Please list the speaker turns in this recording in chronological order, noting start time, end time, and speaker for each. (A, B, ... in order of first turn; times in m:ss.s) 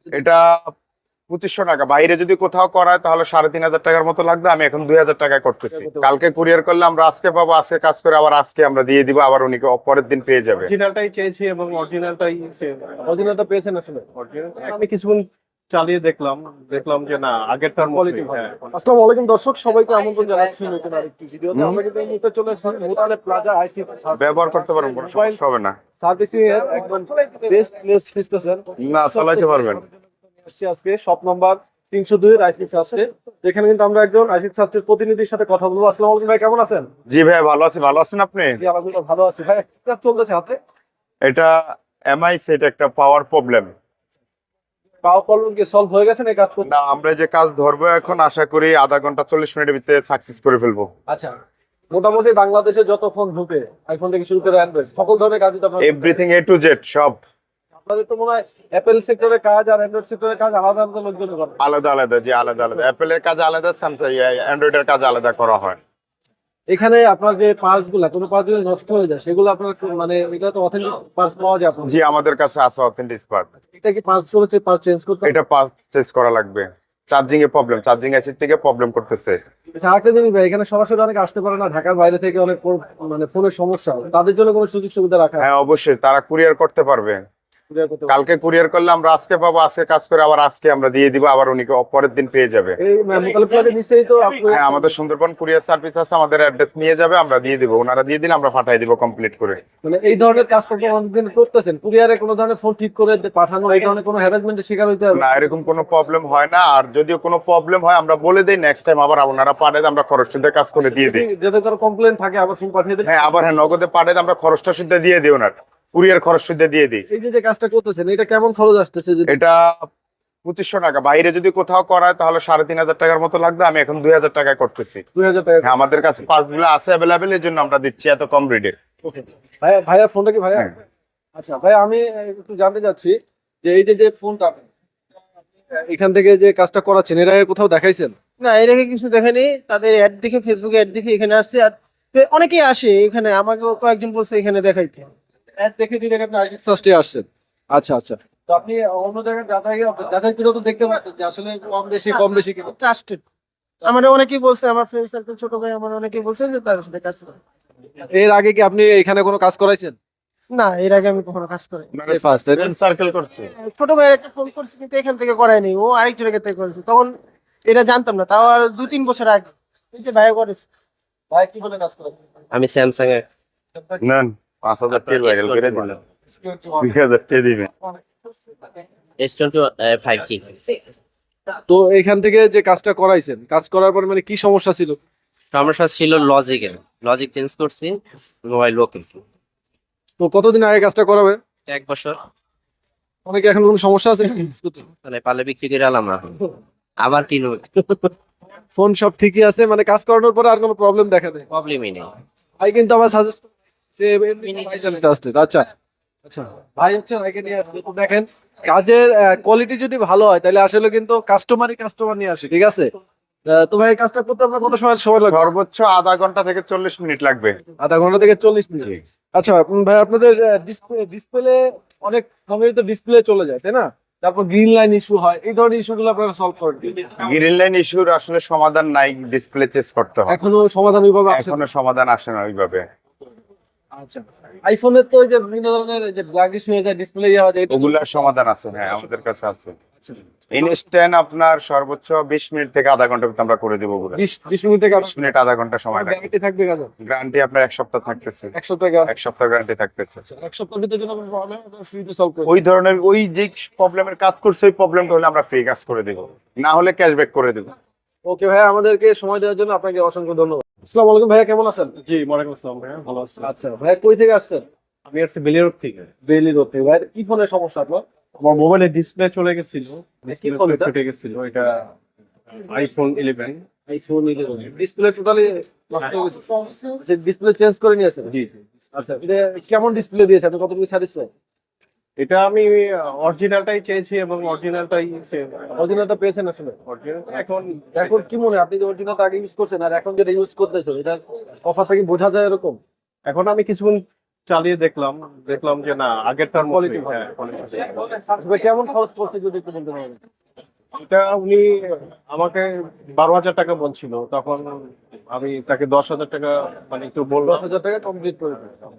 0:00.1-0:00.7 A
0:01.3-0:10.7 A
0:05.8-0:06.1 B
0:10.6-0:13.1 C
0:13.0-0:14.1 B
0:14.2-0:18.8 C
0:17.8-0:25.4 B
0:21.5-0:21.8 A
0:24.2-0:25.8 A
0:26.0-0:36.9 B
0:28.8-0:29.8 A
0:37.1-0:38.6 A
0:38.6-0:40.6 B
0:41.2-0:43.7 A
0:45.0-0:46.7 B
0:46.6-0:50.9 A
0:51.1-0:51.3 B
0:51.9-0:56.2 B
0:55.8-0:57.2 A
0:57.8-1:01.6 B
1:01.6-1:05.8 A
1:06.7-1:12.0 B
1:11.9-1:13.5 A
1:13.8-1:15.3 B
1:15.2-1:19.4 A
1:19.8-1:25.5 B
1:25.4-1:27.2 A
1:27.7-1:28.2 B
1:28.1-1:32.8 A
1:32.8-1:34.9 B
1:34.5-1:39.6 A
1:39.8-1:45.8 B
1:45.1-1:51.3 A
1:50.9-1:53.4 B
1:53.0-1:57.0 A
1:57.1-1:59.3 B
1:59.3-1:59.9 A
2:00.4-2:05.0 A
2:05.2-2:05.7 B
2:05.6-2:08.8 A
2:09.0-2:10.7 B
2:11.4-2:14.7 B
2:15.7-2:18.2 B
2:18.4-2:25.1 D
2:25.6-2:32.7 B
2:32.1-2:33.2 D
2:33.8-2:37.4 D
2:38.1-2:40.0 B
2:40.5-2:41.9 D
2:41.9-2:43.5 A
2:42.1-2:42.7 B
2:43.5-2:47.1 D
2:47.6-2:50.7 D
2:51.3-2:52.2 B
2:52.5-2:53.2 E
2:54.0-2:55.9 A
2:55.0-2:56.0 E
2:56.4-2:56.8 B
2:56.8-2:57.7 A
2:59.2-3:00.7 E
3:01.7-3:05.0 B
3:05.5-3:09.1 E
3:10.2-3:11.4 B
3:11.7-3:12.2 E
3:13.3-3:14.9 B
3:15.0-3:16.4 E
3:17.0-3:18.1 E
3:18.8-3:21.5 B
3:21.5-3:22.1 E
3:22.6-3:23.4 B
3:24.0-3:25.7 B
3:26.3-3:32.9 B
3:33.5-3:35.5 B
3:35.3-3:37.6 A
3:37.8-3:47.2 B
3:47.2-3:50.4 A
3:50.3-3:51.6 B
3:51.3-3:52.8 A
3:54.0-3:58.1 B
3:57.7-3:59.8 A
4:00.5-4:04.2 A
4:04.2-4:05.2 B
4:05.1-4:06.2 A
4:05.9-4:06.9 B
4:07.0-4:08.5 A
4:08.5-4:09.1 B
4:09.1-4:10.2 A
4:10.2-4:12.5 B
4:12.5-4:17.7 A
4:18.2-4:21.9 B
4:22.0-4:23.5 C
4:23.4-4:24.6 B
4:25.1-4:26.1 C
4:26.3-4:28.0 B
4:28.4-4:31.9 C
4:30.2-4:30.9 B
4:32.6-4:33.6 C
4:33.9-4:38.3 B
4:38.3-4:38.7 C
4:38.9-4:41.3 B
4:42.2-4:45.8 C
4:45.8-4:46.8 B
4:46.9-4:48.3 C
4:48.0-4:52.8 B
4:53.3-4:58.0 C
4:56.6-4:57.2 B
4:58.0-5:00.2 B
5:01.0-5:07.6 C
5:07.4-5:08.8 B